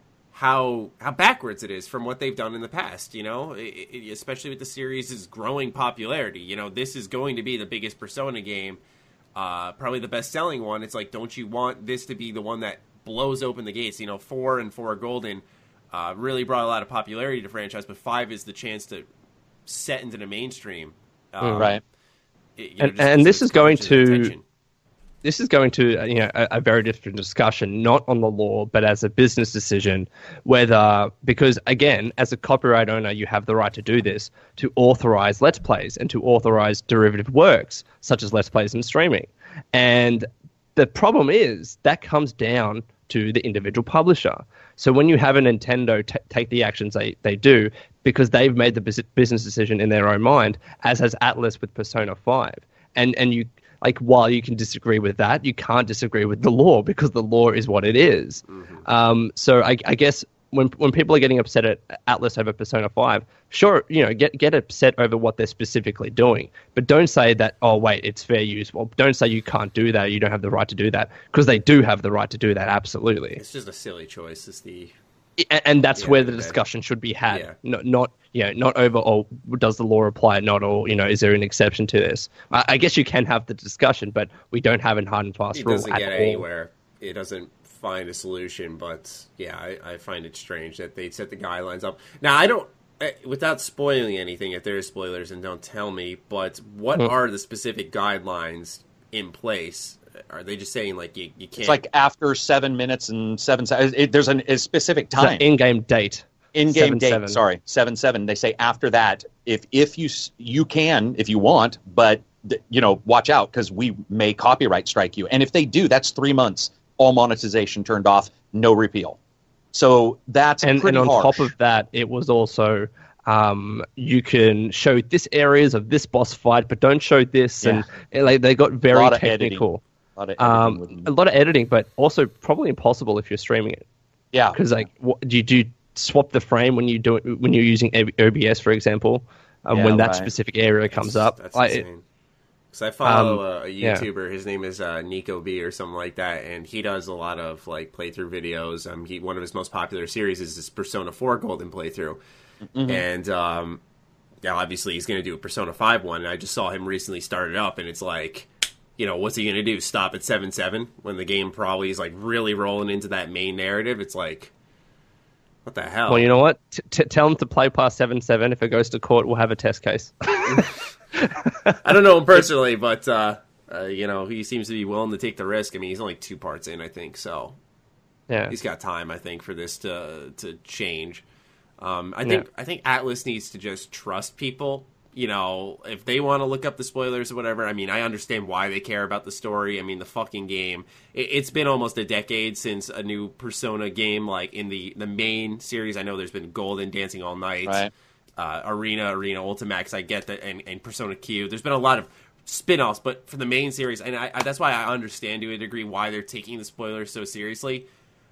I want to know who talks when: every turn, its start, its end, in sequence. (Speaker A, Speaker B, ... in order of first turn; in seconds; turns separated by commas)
Speaker A: 0.3-8.8, Speaker A: 9.3-19.1, Speaker A: 19.7-21.8, Speaker B: 21.4-21.7, Speaker A: 22.6-24.4, Speaker B: 22.8-24.3, Speaker B: 25.2-73.4, Speaker A: 73.4-75.0, Speaker B: 75.4-86.4, Speaker A: 76.0-76.6, Speaker A: 77.3-77.5, Speaker A: 85.5-101.8, Speaker C: 101.6-105.4, Speaker B: 105.2-107.4, Speaker C: 106.5-119.2, Speaker C: 119.7-121.5, Speaker B: 120.6-129.8, Speaker C: 128.9-129.6, Speaker C: 130.2-131.1, Speaker B: 130.4-133.8, Speaker C: 134.3-134.6, Speaker B: 134.5-141.8, Speaker C: 139.7-140.3, Speaker A: 140.9-142.0, Speaker A: 142.7-152.2, Speaker B: 143.1-144.1, Speaker C: 152.7-153.0, Speaker A: 152.9-153.8, Speaker A: 154.4-164.5, Speaker A: 165.7-166.4, Speaker B: 166.1-170.6, Speaker A: 170.5-170.8, Speaker B: 171.2-171.8, Speaker A: 171.8-177.6, Speaker A: 178.5-181.2, Speaker A: 181.8-207.9